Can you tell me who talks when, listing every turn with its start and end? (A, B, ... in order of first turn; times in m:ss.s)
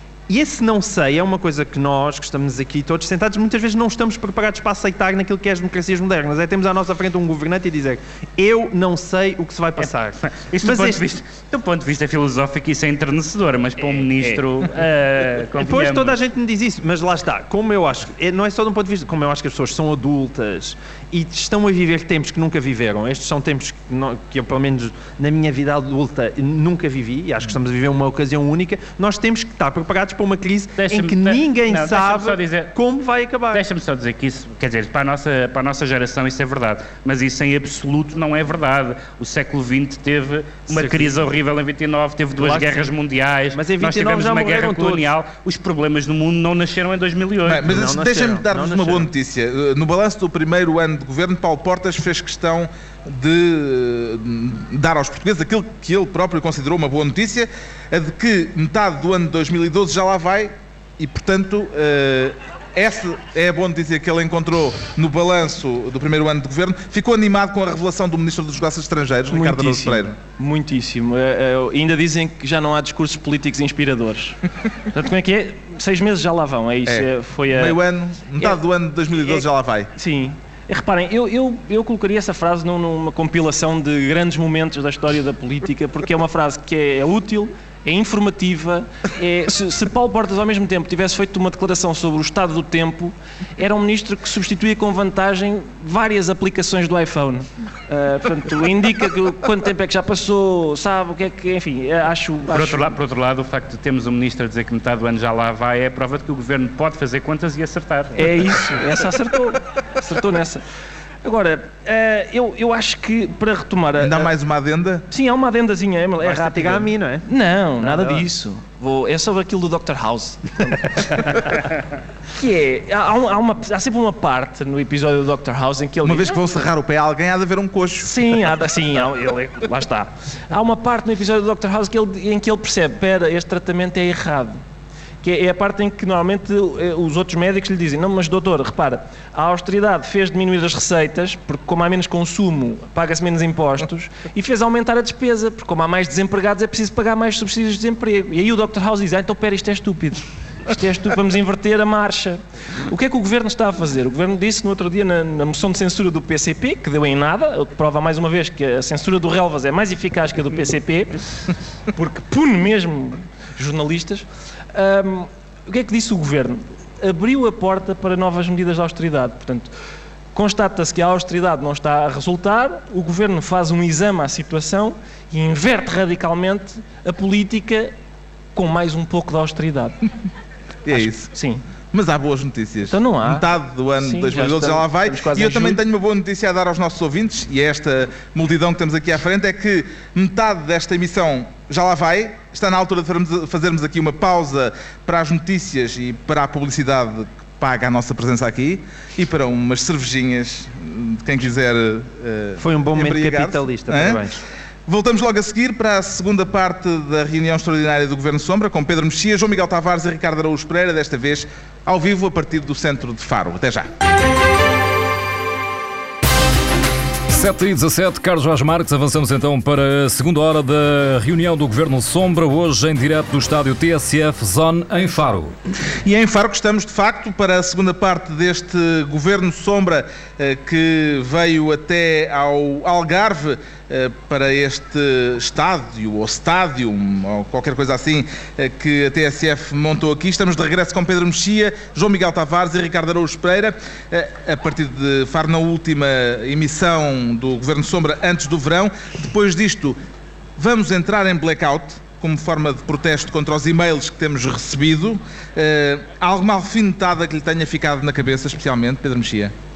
0:00.3-0:11.0 A
0:09.8-0:16.2 B
0:14.1-0:14.4 C
0:15.6-0:33.6 A
0:30.8-0:32.7 B
0:33.5-0:47.8 B
0:40.7-0:41.2 A
0:42.4-0:42.9 A
0:43.5-0:45.1 A
0:47.5-1:10.2 D
0:47.6-0:49.1 A
1:09.3-1:17.8 C
1:16.9-1:19.9 D
1:19.1-1:43.0 C
1:42.5-1:48.3 B
1:48.2-1:50.6 C
1:51.2-1:54.3 C
1:54.0-1:55.0 D
1:55.1-2:01.6 C
1:56.2-1:57.3 A
1:57.8-1:58.3 A
2:02.3-2:06.4 C
2:06.0-2:08.1 D
2:08.0-2:14.6 C
2:15.2-2:49.7 C
2:50.3-2:57.9 C
2:58.6-3:00.0 C
3:00.8-3:01.3 D
3:00.9-3:01.6 C
3:01.9-3:24.3 D
3:02.9-3:03.5 C
3:04.0-3:05.8 C
3:22.6-3:24.4 A
3:24.9-3:33.9 D
3:37.3-3:45.5 E
3:46.0-4:10.0 D
4:10.6-4:19.5 D